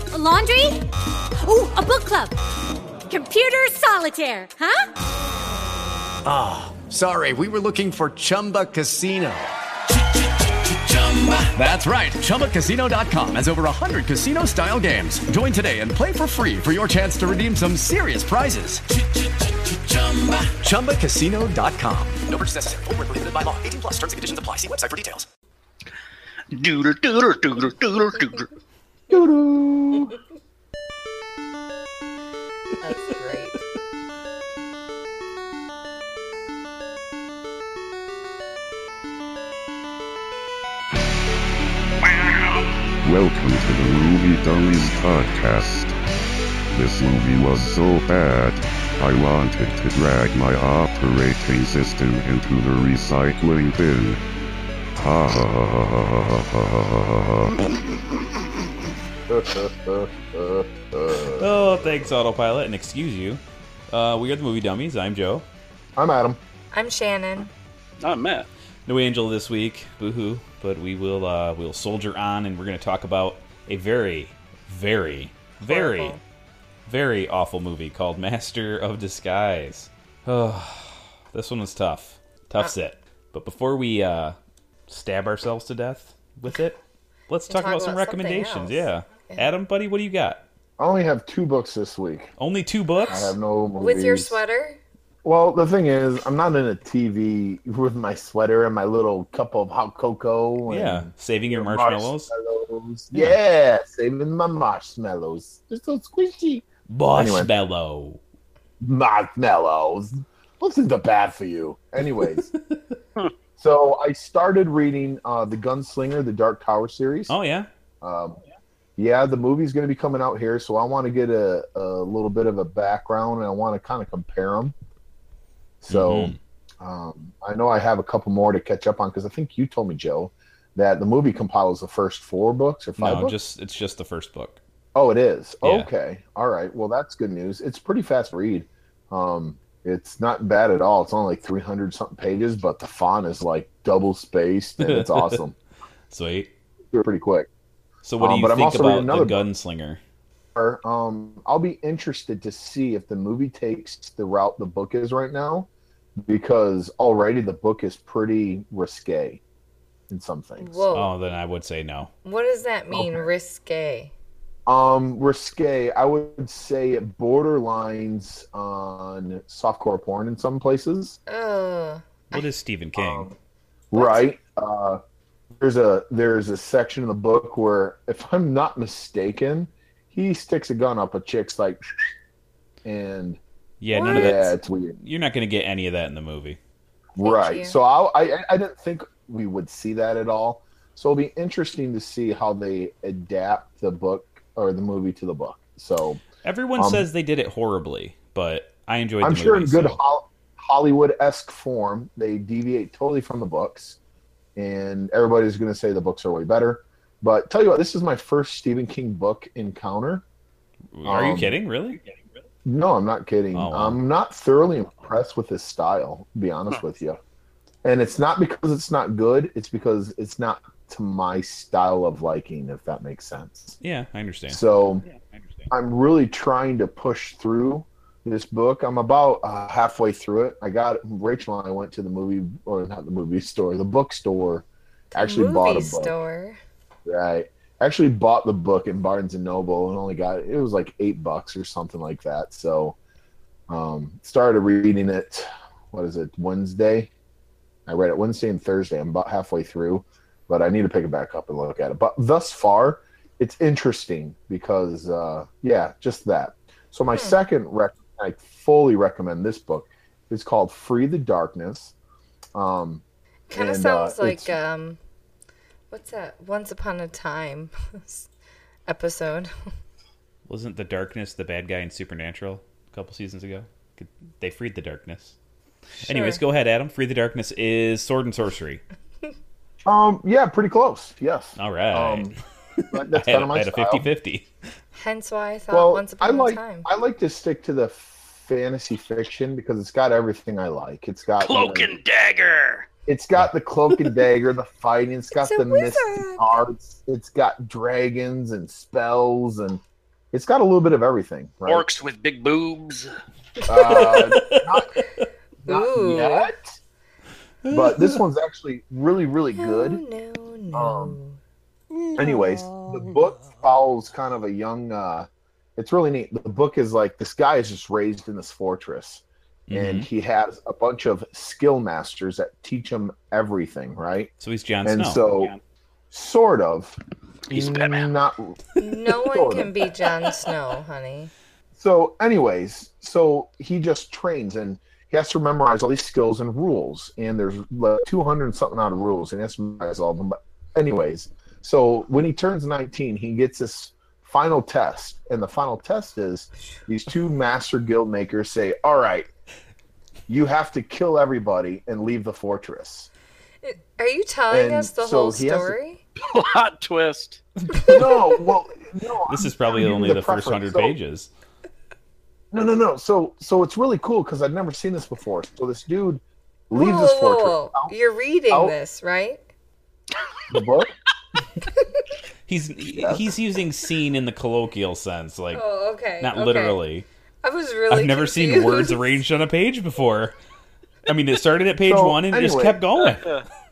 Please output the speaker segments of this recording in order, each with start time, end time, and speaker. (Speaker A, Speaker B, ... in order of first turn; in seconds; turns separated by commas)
Speaker A: 0.1-0.8, Speaker A: 1.4-2.4, Speaker A: 3.1-4.9, Speaker B: 6.2-9.6, Speaker B: 10.7-18.9, Speaker B: 20.5-25.3, Speaker C: 26.5-28.5, Speaker D: 29.1-30.1, Speaker E: 32.8-33.6, Speaker F: 43.0-45.9, Speaker F: 46.7-54.2, Speaker F: 55.0-57.6, Speaker D: 59.3-62.1, Speaker G: 61.4-65.4, Speaker D: 66.0-66.4, Speaker E: 66.7-67.5, Speaker C: 68.0-68.5, Speaker G: 68.9-76.2, Speaker E: 75.7-76.2, Speaker G: 76.9-84.3, Speaker G: 84.9-90.4, Speaker E: 87.5-89.5, Speaker D: 90.8-92.3, Speaker G: 92.4-93.3, Speaker D: 93.1-94.4, Speaker E: 93.8-94.8, Speaker D: 95.2-107.5, Speaker G: 100.7-102.3, Speaker G: 103.1-103.4, Speaker G: 106.9-108.2, Speaker D: 108.8-112.5, Speaker D: 113.6-117.3, Speaker G: 117.3-117.7, Speaker D: 118.0-118.4, Speaker D: 119.0-124.7, Speaker D: 125.8-133.3, Speaker G: 125.9-126.4, Speaker G: 133.0-134.6, Speaker D: 134.9-145.5, Speaker G: 135.6-135.9, Speaker G: 144.8-145.4, Speaker G: 146.1-146.5, Speaker D: 146.9-147.5, Speaker G: 148.0-150.0, Speaker D: 148.2-149.4, Speaker D: 150.5-155.7, Speaker D: 156.2-159.4, Speaker D: 160.1-160.8, Speaker E: 160.6-161.1, Speaker G: 160.9-162.1, Speaker E: 162.2-164.1, Speaker D: 162.9-163.3, Speaker D: 164.7-171.2, Speaker E: 171.3-172.4, Speaker G: 172.3-173.3, Speaker D: 172.9-173.3, Speaker D: 173.9-175.0, Speaker E: 173.9-174.2, Speaker D: 175.6-181.8, Speaker D: 182.8-183.4, Speaker G: 183.8-186.6, Speaker E: 183.9-184.5, Speaker D: 184.0-184.9, Speaker D: 187.2-196.2, Speaker E: 187.2-187.8, Speaker G: 196.4-200.0, Speaker D: 196.8-197.0, Speaker D: 199.2-204.0, Speaker D: 204.6-210.2, Speaker G: 210.9-212.0, Speaker D: 211.0-211.5, Speaker D: 212.6-217.2, Speaker G: 213.5-214.0, Speaker D: 217.8-223.7, Speaker G: 223.8-224.6, Speaker D: 224.5-225.0, Speaker D: 225.7-236.2, Speaker E: 235.1-236.6, Speaker D: 237.1-242.9, Speaker D: 243.7-247.1, Speaker D: 247.9-261.9, Speaker E: 257.1-257.4, Speaker D: 262.5-263.0, Speaker E: 263.5-265.0, Speaker D: 263.5-264.6, Speaker E: 265.9-268.3, Speaker E: 268.9-269.5, Speaker G: 270.5-275.3, Speaker G: 276.0-278.8, Speaker E: 276.1-276.4, Speaker D: 279.8-282.3, Speaker G: 281.6-284.5, Speaker D: 282.9-284.1, Speaker E: 284.9-286.9, Speaker D: 285.7-291.9, Speaker C: 291.4-292.9, Speaker D: 293.1-299.8, Speaker E: 295.4-296.6, Speaker D: 300.3-301.8, Speaker C: 301.6-303.1, Speaker E: 303.6-304.4, Speaker D: 303.7-305.0, Speaker G: 304.0-304.6, Speaker D: 305.6-306.7, Speaker E: 305.6-306.5, Speaker G: 307.6-308.2, Speaker D: 307.7-310.0, Speaker E: 309.6-311.4, Speaker D: 310.7-311.2, Speaker D: 312.1-324.3, Speaker G: 319.7-320.1, Speaker G: 324.4-325.2, Speaker D: 324.8-325.5, Speaker D: 326.1-327.0, Speaker C: 327.5-328.1, Speaker D: 327.5-329.9, Speaker E: 328.8-331.3, Speaker D: 331.8-349.3, Speaker D: 350.3-353.1, Speaker E: 353.6-356.0, Speaker D: 354.5-355.8, Speaker C: 356.2-357.4, Speaker D: 357.9-360.9, Speaker G: 359.2-361.3, Speaker D: 362.5-367.9, Speaker E: 366.7-369.4, Speaker D: 370.5-370.9, Speaker G: 372.5-375.6, Speaker D: 372.9-373.2, Speaker E: 375.5-376.8, Speaker G: 376.2-377.1, Speaker E: 377.4-379.2, Speaker G: 377.9-380.3, Speaker G: 381.1-383.2, Speaker D: 381.9-382.8, Speaker C: 383.0-383.4